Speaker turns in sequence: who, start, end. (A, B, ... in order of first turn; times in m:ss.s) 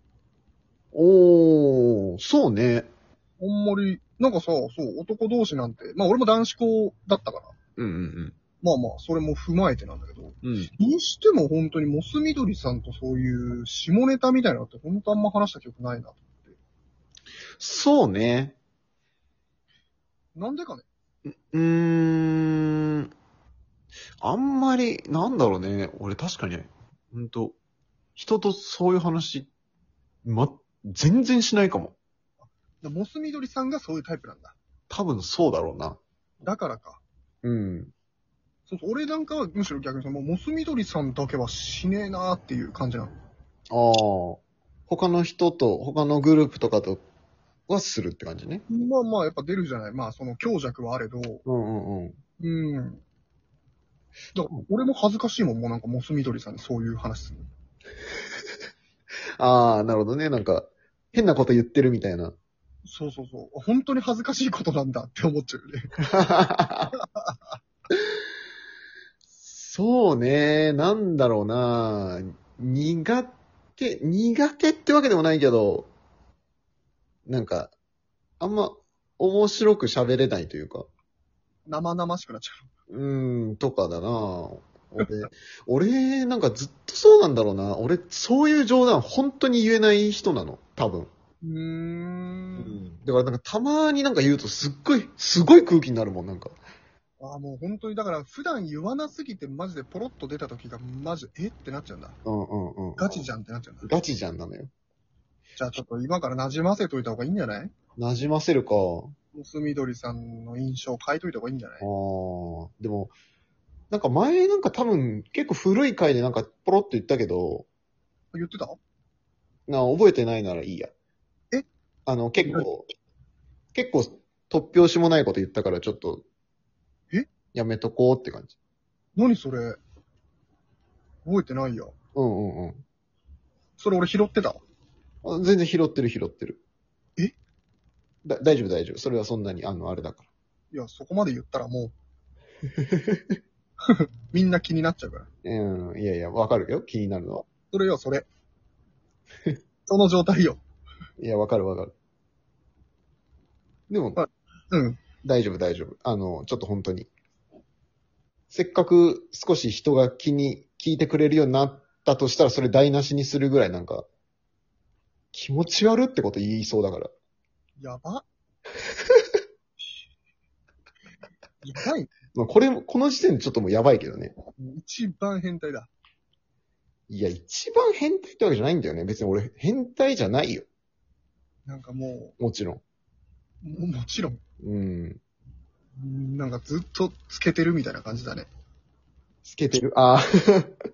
0:00.9-0:02.9 A
0:03.4-0:07.5 B
0:07.8-0:08.4 A
0:08.6-0:16.2 B
0:10.4-0:10.7 A
0:17.6-0:18.6 A
0:20.3-0:20.8 B
0:21.5-0:23.1 A
0:24.2-0:27.6 A
0:28.2-0:29.5 A
0:30.2-0:32.0 A
0:32.4-0:34.6 B
0:34.9-0:36.0 A
0:36.4-0:37.0 B
0:37.4-0:37.9 A
0:38.7-0:43.1 B
0:43.7-0:47.0 A
0:47.7-0:48.6 A
0:48.7-0:51.4 B
0:51.4-0:52.2 A
0:52.4-0:53.0 B
0:54.3-0:57.5 B
0:59.4-1:02.4 A
1:02.8-1:06.0 B
1:06.0-1:06.9 A
1:06.9-1:07.6 B
1:09.4-1:15.9 A
1:17.2-1:17.7 A
1:18.4-1:20.9 A
1:21.6-1:22.7 B
1:22.9-1:31.1 A
1:31.4-1:32.8 B
1:32.6-1:36.6 A
1:37.2-1:42.2 B
1:42.2-1:43.2 A
1:43.0-1:43.9 B
1:43.8-1:44.7 A
1:45.6-1:47.7 B
1:48.0-1:49.1 A
1:49.3-1:51.8 B
1:51.8-1:53.1 A
1:53.9-1:57.7 A
1:58.3-1:58.8 B
1:59.7-2:00.9 A
2:02.0-2:02.8 A
2:03.7-2:06.2 A
2:07.5-2:08.6 A
2:09.1-2:09.8 B
2:11.2-2:11.9 B
2:12.1-2:12.8 A
2:13.8-2:14.6 B
2:15.2-2:16.6 A
2:18.2-2:20.3 A
2:20.7-2:21.9 B
2:22.8-2:23.2 A
2:23.8-2:25.3 B
2:25.4-2:27.5 A
2:27.7-2:28.3 B
2:29.8-2:30.6 B
2:31.2-2:31.9 A
2:33.9-2:34.2 A
2:34.2-2:35.0 B
2:35.2-2:37.1 A
2:38.5-2:44.0 A
2:45.3-2:47.1 A
2:47.8-2:48.2 B
2:51.6-2:52.1 B
2:52.3-2:54.3 A
2:54.6-2:55.9 B
2:57.1-3:00.7 A
3:01.6-3:02.3 B
3:02.4-3:02.8 A
3:03.6-3:04.4 B
3:04.6-3:05.2 A
3:06.0-3:08.5 B
3:09.4-3:10.7 A